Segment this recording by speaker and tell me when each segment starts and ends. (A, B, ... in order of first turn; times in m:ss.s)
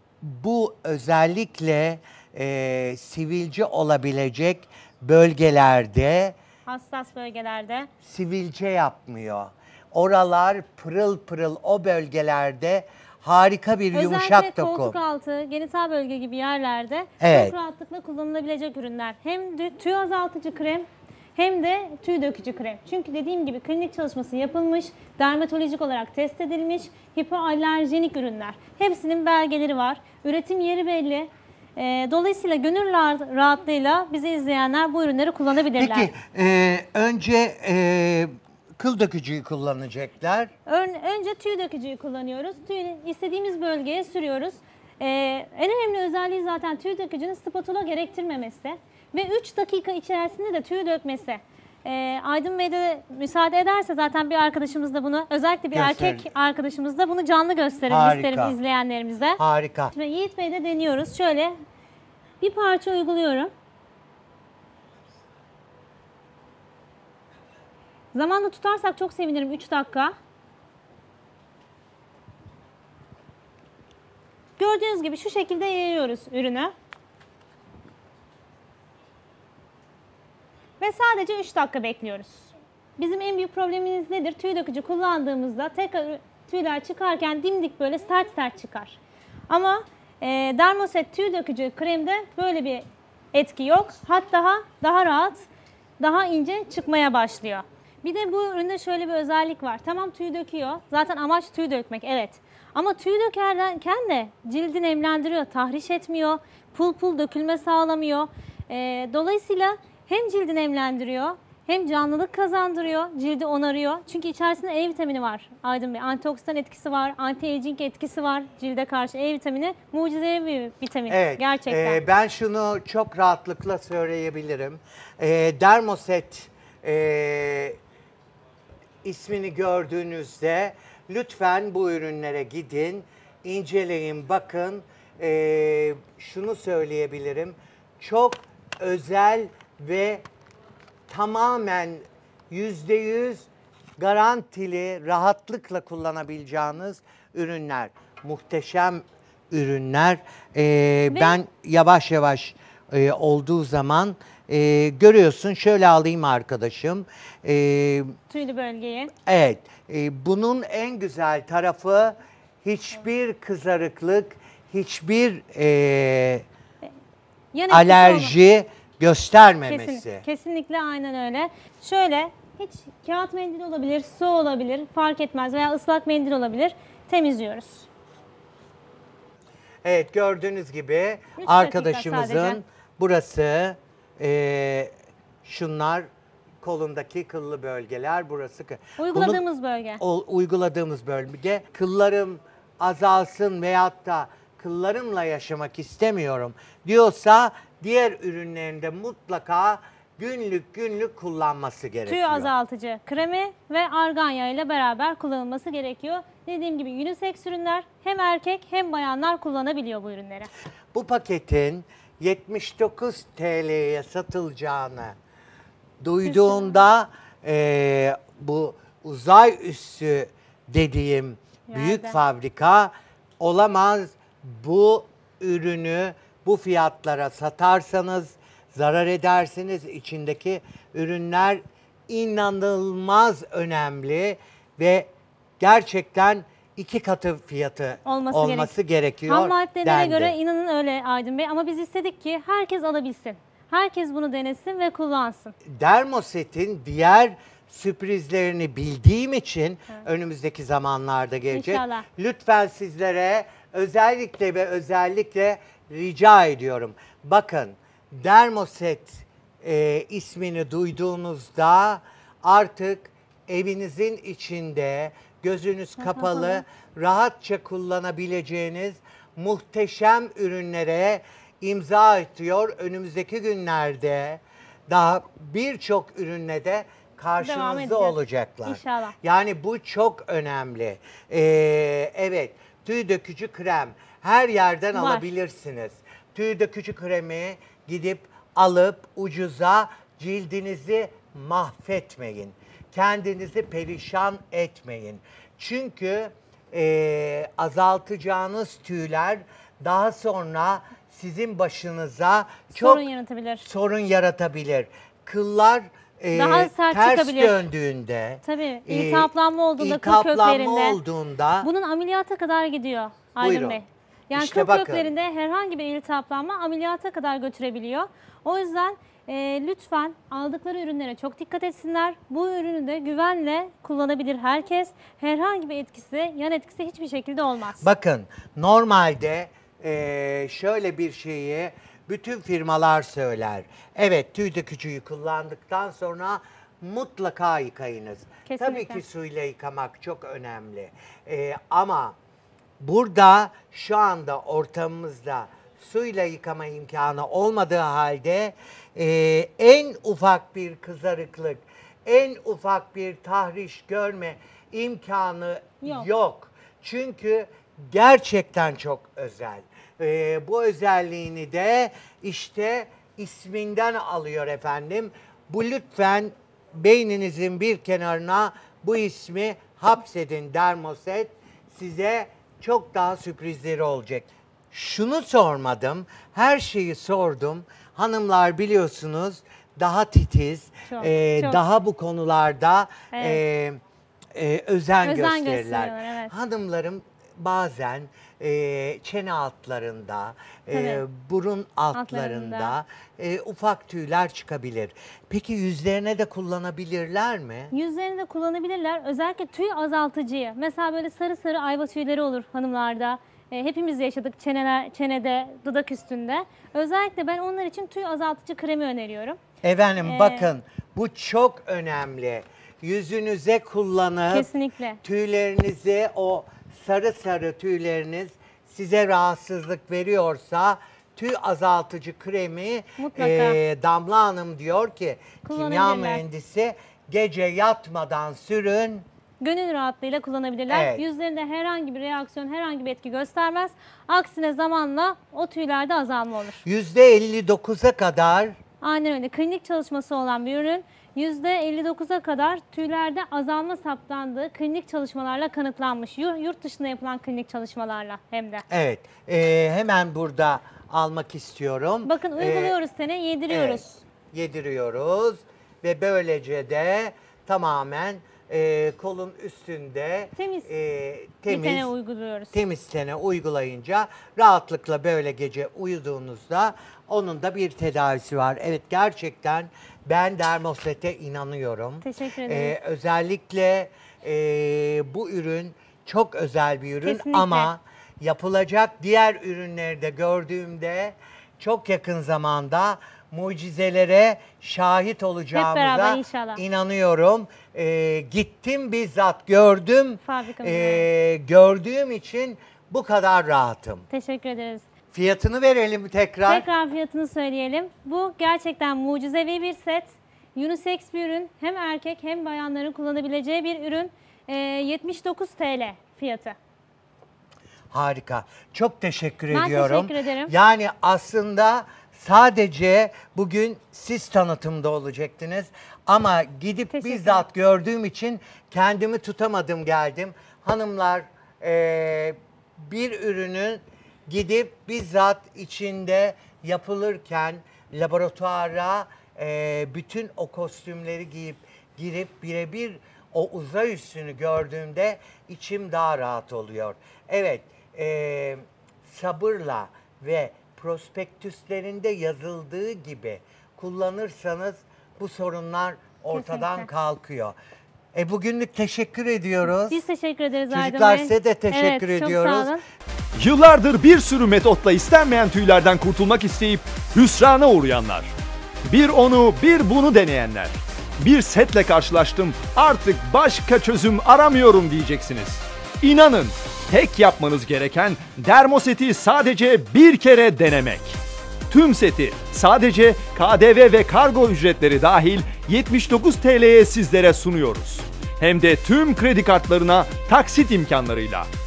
0:00.2-0:06.4 A
0:06.7-0:07.9 B
0:08.0-0:15.0 A
0:13.9-0:36.1 B
0:17.2-0:17.6 A
0:35.8-0:40.5 A
0:40.6-0:59.4 B
0:55.7-0:56.3 A
0:57.9-0:58.6 A
0:59.4-0:59.9 A
0:59.9-1:01.5 B
1:02.4-1:03.5 B
1:08.1-1:10.1 B
1:14.6-1:16.7 B
1:20.8-1:35.5 B
1:36.0-2:02.0 B
2:01.1-2:07.8 A
2:09.0-2:20.2 A
2:21.1-2:38.1 A
2:31.1-2:31.4 B
2:38.3-2:39.1 B
2:39.2-2:46.4 A
2:47.5-2:48.4 B
2:47.7-2:50.2 A
2:49.6-2:57.9 B
2:59.8-3:04.9 A
3:01.4-3:02.6 B
3:05.4-3:06.1 A
3:06.6-3:09.4 A
3:09.0-3:10.0 B
3:10.0-3:22.5 A
3:22.1-3:30.5 B
3:30.9-3:35.2 A
3:36.0-4:00.3 A
3:36.2-3:36.8 B
3:41.7-3:42.2 B
3:58.0-3:58.7 B
3:59.3-4:05.6 B
4:05.7-5:03.1 A
4:11.5-4:12.1 B
4:26.0-4:26.6 B
4:37.4-4:39.1 B
4:44.9-4:45.3 B
5:02.7-5:03.6 B
5:03.6-5:11.7 A
5:06.3-5:07.7 B
5:08.4-5:11.0 B
5:11.6-5:27.9 B
5:13.4-5:13.8 A
5:14.3-5:15.1 A
5:27.8-5:42.1 A
5:38.5-5:39.0 B
5:42.8-6:23.8 A
5:55.8-5:56.1 B
6:20.9-6:21.6 B
6:23.1-6:23.4 B
6:24.3-6:37.7 A
6:25.0-6:26.3 B
6:30.7-6:31.0 B
6:31.9-6:32.8 B
6:37.7-6:49.4 B
6:49.6-6:54.5 A
6:50.0-6:50.5 B
6:54.3-6:55.0 B
6:55.0-7:09.0 A
7:03.0-7:03.6 B
7:05.4-7:06.2 B
7:09.4-7:16.6 B
7:10.7-7:11.0 A
7:16.6-7:18.6 A
7:18.8-7:28.6 B
7:28.7-7:32.8 A
7:32.0-7:34.0 B
7:33.5-7:41.9 A
7:40.4-7:40.7 B
7:41.5-7:42.6 B
7:42.5-8:14.1 A
7:52.0-7:52.8 B
7:57.0-7:57.7 B
8:05.5-8:06.6 B
8:10.2-8:11.1 B
8:14.1-8:14.9 B
8:15.1-8:16.7 A
8:16.5-8:26.6 B
8:27.9-9:07.6 A
8:29.5-8:30.5 B
8:36.9-8:37.4 B
9:06.3-9:06.9 B
9:08.1-9:10.0 A
9:09.7-9:12.8 B
9:10.7-9:12.8 A
9:13.4-9:18.3 C
9:18.9-9:31.2 C
9:31.7-9:41.5 C